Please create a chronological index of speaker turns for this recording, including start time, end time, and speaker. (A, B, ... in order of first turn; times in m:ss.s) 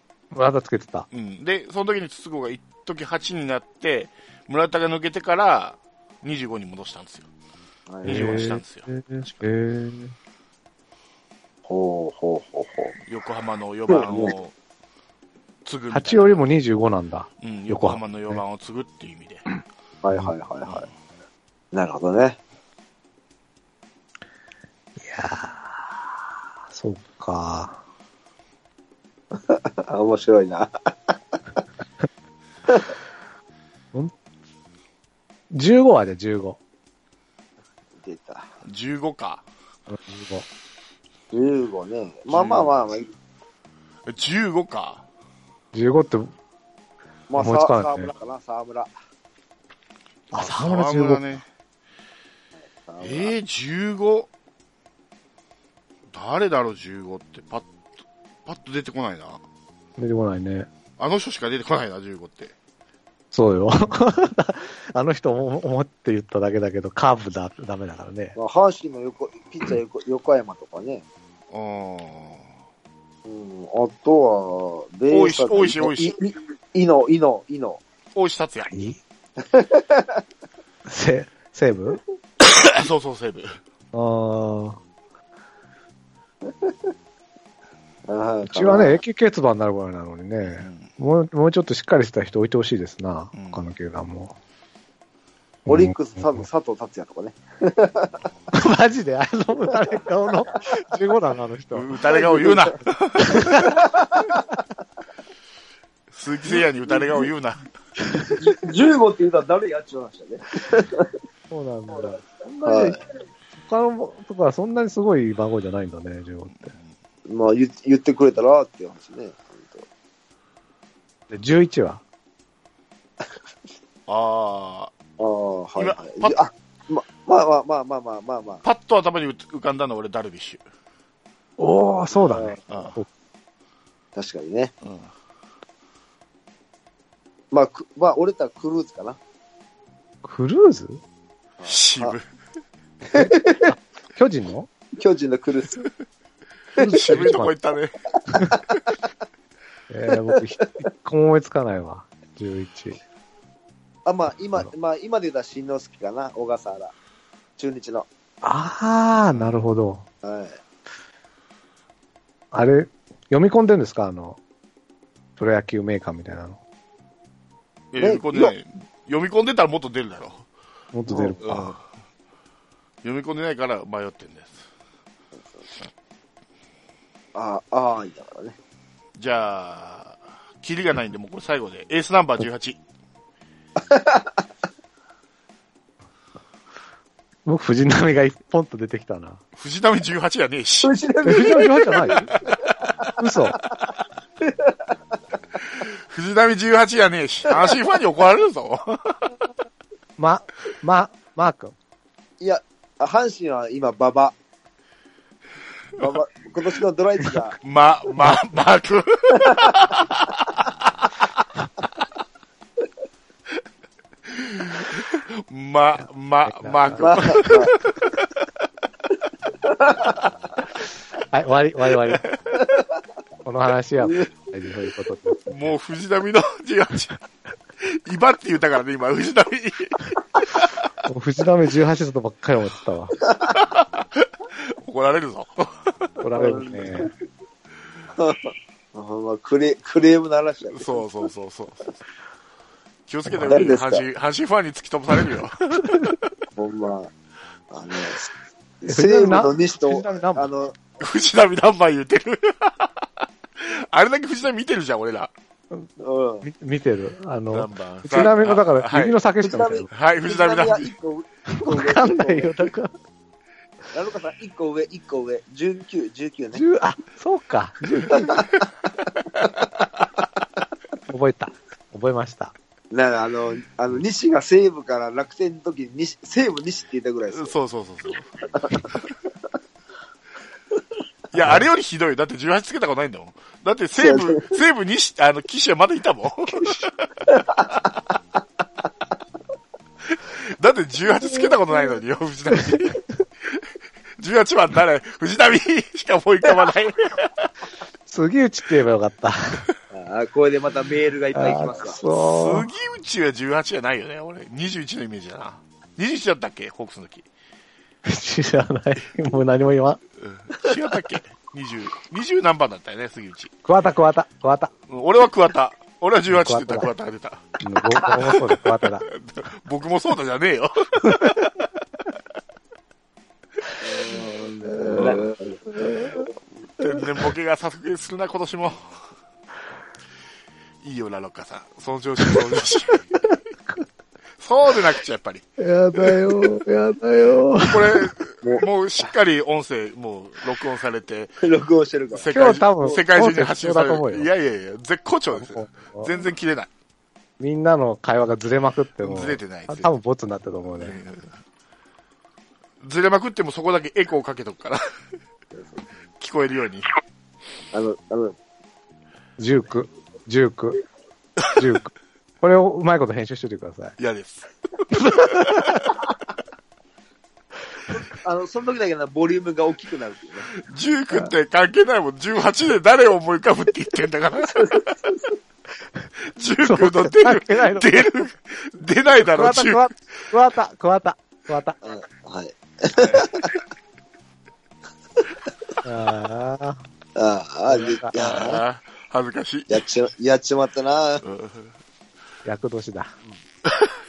0:00.3-0:01.1 A
0:01.1-0:07.3 B
0:07.9-0:08.5 C
0:08.0-0:08.9 B
0:08.0-0:10.1 A
0:11.7-0:13.0 C
0:13.0-0:14.5 B
0:13.9-0:14.3 C
0:15.6-0:16.4 B
0:15.9-0:18.4 A
0:17.4-0:19.4 B
0:20.0-0:20.9 C
0:21.7-0:22.4 C
0:25.0-0:26.0 A
0:26.7-0:27.8 A
0:29.3-0:31.1 C
0:35.5-0:36.6 A
0:38.0-0:38.5 C
0:38.6-0:39.4 B
0:39.9-0:40.4 A
0:41.3-0:43.1 C
0:42.3-0:42.8 B
0:44.0-0:45.0 B
0:45.7-0:46.3 A
0:47.3-0:48.9 C
0:47.4-0:48.1 A
0:50.3-0:51.4 A
0:50.3-0:51.4 B
0:52.8-0:53.3 C
0:53.0-0:54.3 B
0:56.1-0:57.7 B
0:58.4-0:59.4 B
1:00.0-1:00.7 A
1:01.0-1:02.5 B
1:03.3-1:08.4 A
1:08.4-1:11.0 C
1:11.5-1:12.5 B
1:13.2-1:17.8 C
1:15.1-1:16.1 B
1:18.1-1:18.7 B
1:18.7-1:19.0 A
1:19.4-1:20.2 C
1:20.8-1:22.0 A
1:22.4-1:23.6 B
1:23.9-1:24.8 A
1:26.4-1:26.7 C
1:28.1-1:29.0 C
1:28.4-1:34.4 A
1:30.5-1:30.9 B
1:33.3-1:33.7 B
1:35.7-1:36.4 A
1:35.7-1:38.2 C
1:38.5-1:41.9 A
1:41.7-1:43.7 B
1:42.1-1:42.7 C
1:43.2-1:43.8 A
1:43.8-1:44.4 C
1:46.1-1:47.6 B
1:46.8-1:47.3 C
1:48.1-1:51.1 C
1:51.5-1:53.0 A
1:51.9-1:53.0 C
1:53.6-1:56.7 A
1:56.6-1:56.9 B
1:57.2-1:59.8 C
2:01.3-2:02.0 A
2:04.1-2:04.9 B
2:05.2-2:08.6 C
2:05.8-2:06.4 B
2:08.6-2:10.6 B
2:11.6-2:13.1 A
2:12.3-2:12.7 C
2:12.7-2:13.0 B
2:14.2-2:14.7 C
2:14.8-2:15.1 B
2:17.5-2:19.2 C
2:20.2-2:21.0 A
2:21.6-2:22.2 C
2:21.6-2:22.2 B
2:23.1-2:23.7 C
2:23.1-2:24.7 A
2:25.0-2:25.9 C
2:26.8-2:27.5 A
2:26.8-2:27.3 C
2:26.9-2:28.0 B
2:29.9-2:33.0 A
2:34.0-2:36.9 C
2:37.6-2:38.0 C
2:38.4-2:40.0 A
2:39.3-2:39.6 B
2:40.2-2:40.6 C
2:42.5-2:44.4 A
2:45.4-2:46.6 A
2:47.9-2:50.4 B
2:48.0-2:48.5 C
2:50.9-2:51.7 A
2:51.1-2:51.4 C
2:51.4-2:51.8 B
2:53.0-2:54.6 B
2:55.4-2:55.6 C
2:57.3-2:58.6 C
2:59.2-3:02.8 B
3:03.9-3:04.4 C
3:07.4-3:09.4 A
3:09.6-3:11.7 B
3:10.8-3:13.1 C
3:11.2-3:12.3 A
3:13.2-3:13.6 A
3:14.4-3:14.9 C
3:15.7-3:19.2 B
3:20.2-3:21.7 A
3:22.4-3:24.3 C
3:26.0-3:27.6 C
3:27.6-3:31.2 B
3:34.2-3:38.2 B
3:36.4-3:37.5 A
3:37.0-3:37.8 C
3:39.6-3:40.2 C
3:41.3-3:42.2 A
3:42.1-3:42.4 B
3:42.6-3:42.8 C
3:43.4-3:45.7 A
3:44.0-3:44.3 C
3:45.5-3:47.2 B
3:47.8-3:50.7 B
3:51.0-3:53.2 A
3:53.5-3:55.9 B
3:56.2-3:57.1 A
3:56.3-3:57.1 C
3:58.2-4:01.0 C
4:00.7-4:02.0 B
4:03.1-4:06.1 B
4:03.4-4:04.0 C
4:06.6-4:07.1 C
4:07.7-4:08.3 C
4:08.8-4:10.8 C
4:08.9-4:10.4 A
4:11.0-4:15.3 B
4:16.0-4:16.4 C
4:16.4-4:19.9 A
4:17.5-4:19.2 B
4:19.4-4:22.7 C
4:19.9-4:20.9 B
4:21.5-4:22.9 A
4:23.9-4:26.6 C
4:26.5-4:28.4 A
4:28.1-4:28.6 C
4:31.1-4:32.5 A
4:32.9-4:37.5 C
4:37.3-4:38.3 B
4:41.3-4:47.1 B
4:44.0-4:44.6 C
4:47.3-4:47.6 C
4:50.0-4:53.6 B
4:54.2-4:57.5 B
4:58.1-4:59.6 A
4:59.9-5:02.0 C
5:01.3-5:02.7 A
5:02.1-5:07.2 B
5:08.0-5:10.0 A
5:10.2-5:13.5 B
5:13.6-5:14.7 A
5:14.9-5:17.4 B
5:16.3-5:16.9 A
5:17.6-5:19.0 A
5:19.1-5:21.6 B
5:23.8-5:25.5 C
5:24.6-5:26.2 A
5:26.8-5:28.8 B
5:30.8-5:33.1 B
5:34.4-5:35.4 B
5:35.6-5:38.1 A
5:37.6-5:41.3 B
5:38.4-5:39.1 C
5:41.4-5:42.3 C
5:42.1-5:46.7 B
5:42.3-5:44.3 A
5:45.3-5:46.1 A
5:47.4-5:51.0 A
5:49.0-5:49.9 B
5:50.8-5:51.3 B
5:52.8-5:54.8 B
5:55.5-5:55.8 C
5:56.2-5:56.8 B
5:57.7-5:58.4 C
5:59.4-6:00.8 A
6:01.6-6:04.0 A
6:04.0-6:04.5 B
6:04.9-6:05.9 A
6:05.1-6:05.9 B
6:07.9-6:10.5 C
6:10.6-6:15.1 B
6:14.4-6:15.3 C
6:16.2-6:19.8 B
6:16.6-6:18.1 A
6:19.2-6:21.8 A
6:21.8-6:23.5 C
6:23.0-6:23.4 B
6:25.8-6:26.8 A
6:27.2-6:28.6 C
6:27.7-6:28.1 A
6:28.1-6:29.8 B
6:29.7-6:31.2 C
6:31.2-6:31.7 B
6:32.4-6:33.2 A
6:33.6-6:34.0 B